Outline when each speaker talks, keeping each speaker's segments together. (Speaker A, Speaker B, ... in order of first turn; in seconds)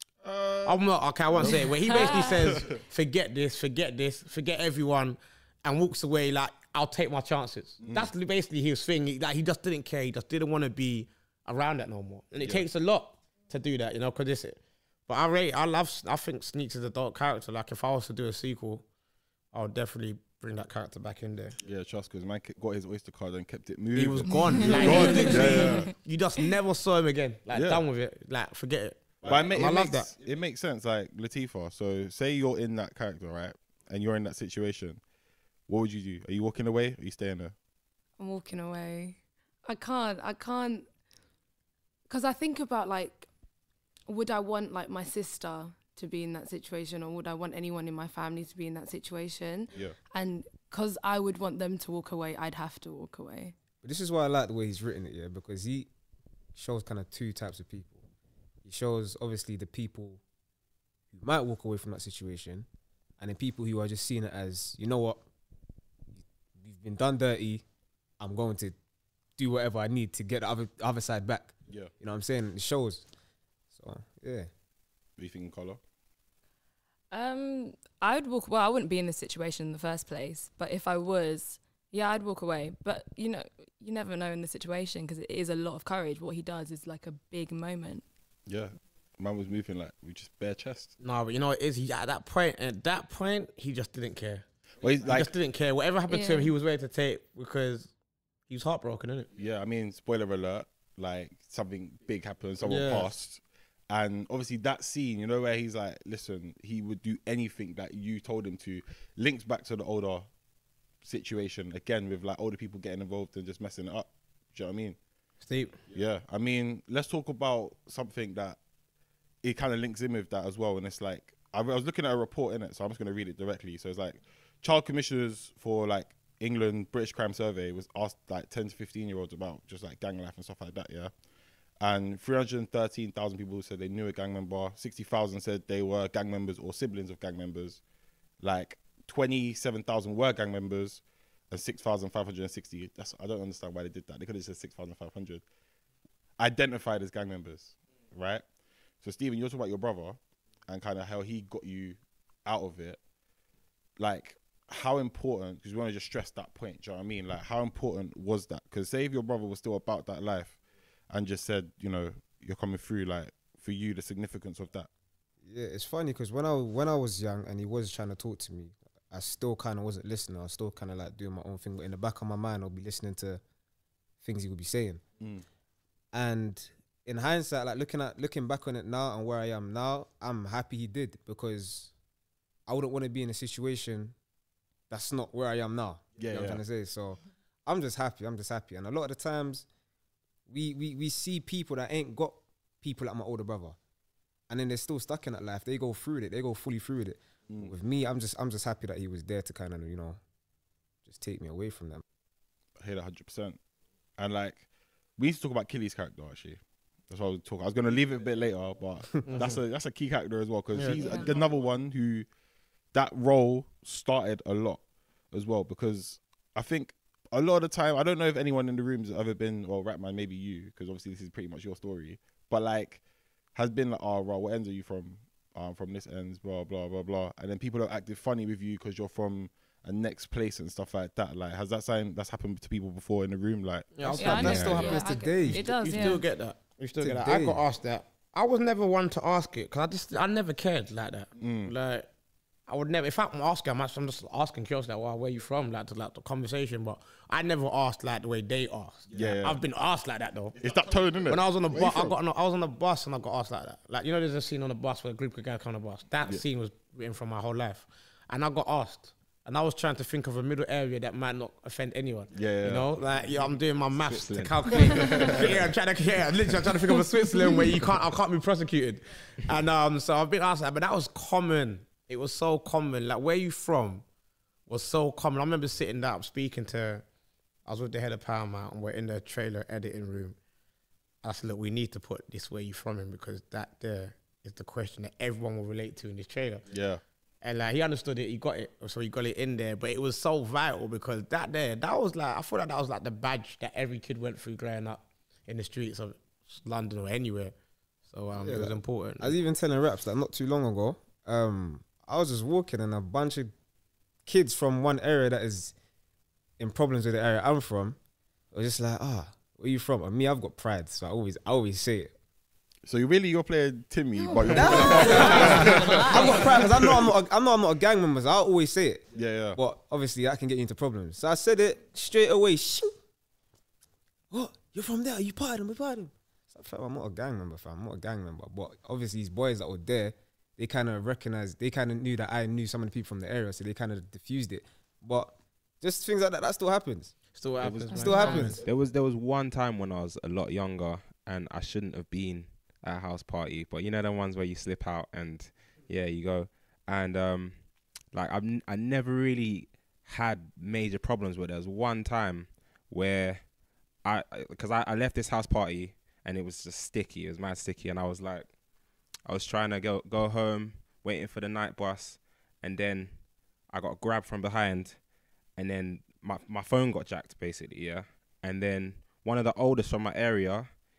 Speaker A: 0.2-2.7, 7.8-8.1, 21.6-25.9, 27.5-27.8, 29.2-35.0, 35.7-37.5, 75.2-75.8, 88.5-90.9, 94.8-95.3, 99.3-110.3, 111.0-115.0, 115.9-118.6, 119.4-131.1, 131.8-137.8, 138.4-145.4, 146.4-148.4, 149.0-153.0, 154.0-160.6, 161.1-164.9, 186.2-186.6, 202.8-203.6, 204.2-204.6, 205.2-212.3, 212.9-223.0, 223.5-234.8, 241.4-241.7, 249.1-249.6, 250.6-252.2, 262.3-262.9, 264.9-265.7, 286.7-287.0, 312.9-317.0, 319.1-319.6
Speaker B: 0.7-18.8, 19.5-21.6, 23.9-30.1, 91.0-94.4, 95.0-97.9, 98.5-99.3, 102.6-103.1, 115.4-115.8, 209.2-209.6, 210.7-211.1, 233.9-242.1, 242.7-250.7, 251.3-274.0, 274.7-277.0, 277.6-280.4, 281.2-286.7, 287.4-297.5, 298.1-299.3, 315.4-315.8, 337.3-338.6
Speaker C: 1.9-2.4, 24.3-25.9, 38.2-40.9, 42.1-43.3, 44.1-53.5, 77.1-88.0, 96.1-96.5, 210.9-211.3, 234.2-236.2, 314.2-316.4, 337.9-338.5
Speaker D: 53.8-55.9, 56.5-58.0, 58.6-60.2, 61.1-62.6, 63.2-65.2, 66.2-67.6, 68.2-68.8, 69.4-73.1, 73.7-74.5, 165.4-173.4, 174.2-175.0, 176.1-181.9, 182.7-184.1, 184.9-189.7, 190.5-193.8, 194.5-200.2, 201.0-202.0, 234.0-236.2, 237.0-237.6, 298.4-303.5, 304.2-305.7, 306.6-308.0, 308.5-312.1, 314.5-322.9, 324.3-337.1, 337.9-338.6
Speaker E: 264.0-264.5, 337.6-353.5, 354.0-358.5, 359.2-363.2, 363.7-365.0, 365.5-370.7